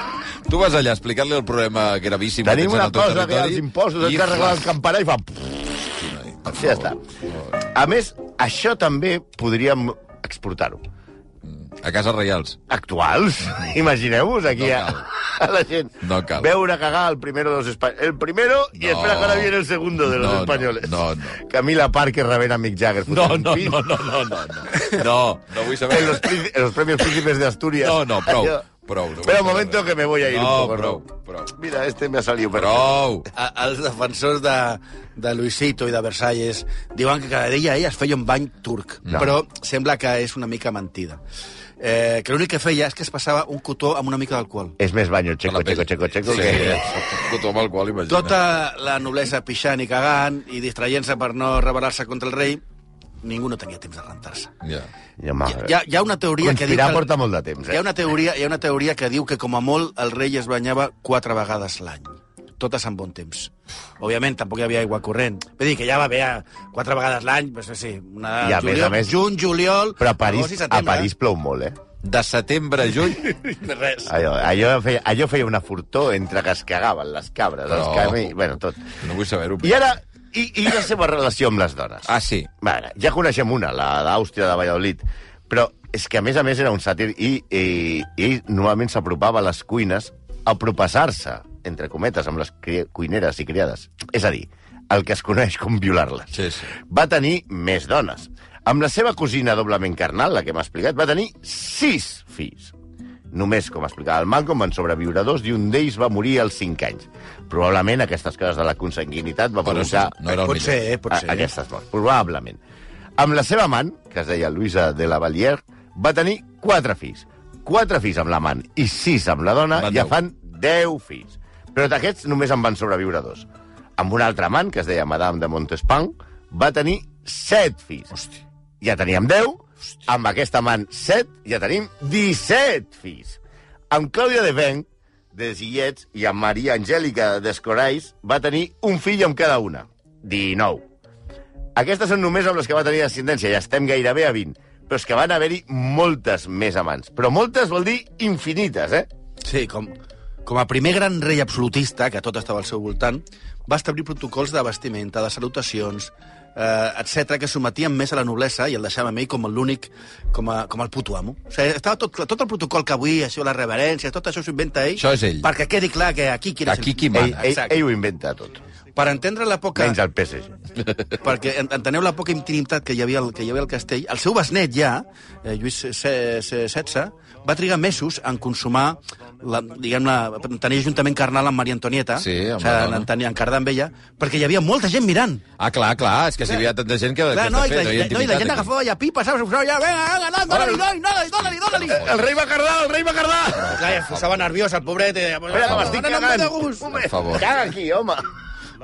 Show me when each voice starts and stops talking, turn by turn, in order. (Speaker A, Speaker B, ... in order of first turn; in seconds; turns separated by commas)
Speaker A: 0.5-4.7, Speaker B: 2.4-7.0, Speaker A: 6.0-6.8, Speaker B: 7.6-10.8, Speaker A: 11.4-12.6, Speaker B: 12.7-23.9, Speaker A: 14.6-15.1, Speaker A: 16.0-16.5, Speaker A: 18.8-19.5, Speaker A: 20.1-21.4, Speaker A: 23.1-26.4, Speaker B: 25.9-28.6, Speaker A: 27.8-31.5, Speaker B: 29.2-33.0, Speaker A: 32.5-33.3, Speaker C: 33.3-41.2, Speaker C: 41.8-44.8, Speaker B: 44.8-46.8, Speaker A: 45.5-48.4, Speaker C: 46.3-46.8, Speaker C: 48.1-52.6, Speaker C: 53.2-54.5, Speaker A: 54.6-54.9, Speaker B: 55.2-55.7, Speaker C: 55.5-57.2, Speaker B: 56.4-57.8, Speaker C: 57.7-71.1, Speaker B: 68.4-69.2, Speaker B: 70.0-71.8, Speaker A: 72.0-73.4, Speaker C: 73.2-74.1, Speaker B: 74.1-79.0, Speaker A: 77.7-78.4, Speaker A: 79.0-79.8, Speaker B: 79.6-102.7, Speaker A: 82.1-82.5, Speaker A: 96.3-96.7, Speaker B: 103.3-110.2, Speaker A: 109.7-110.8, Speaker C: 110.3-111.5, Speaker B: 111.1-112.6, Speaker B: 113.2-123.5, Speaker A: 119.8-120.2, Speaker B: 124.0-128.2, Speaker B: 128.8-133.4, Speaker B: 133.9-140.8, Speaker B: 141.8-149.1, Speaker C: 149.4-167.8, Speaker A: 165.0-165.5, Speaker A: 166.7-167.4, Speaker B: 167.1-168.6, Speaker C: 168.9-170.0, Speaker B: 169.8-170.5, Speaker C: 171.2-185.4, Speaker A: 182.2-183.1, Speaker A: 185.6-188.7, Speaker C: 187.3-192.1, Speaker A: 190.5-190.8, Speaker A: 191.5-192.2, Speaker B: 191.9-193.8, Speaker A: 193.6-194.2, Speaker C: 193.7-196.9, Speaker B: 195.5-198.2, Speaker A: 195.6-196.0, Speaker A: 196.9-197.5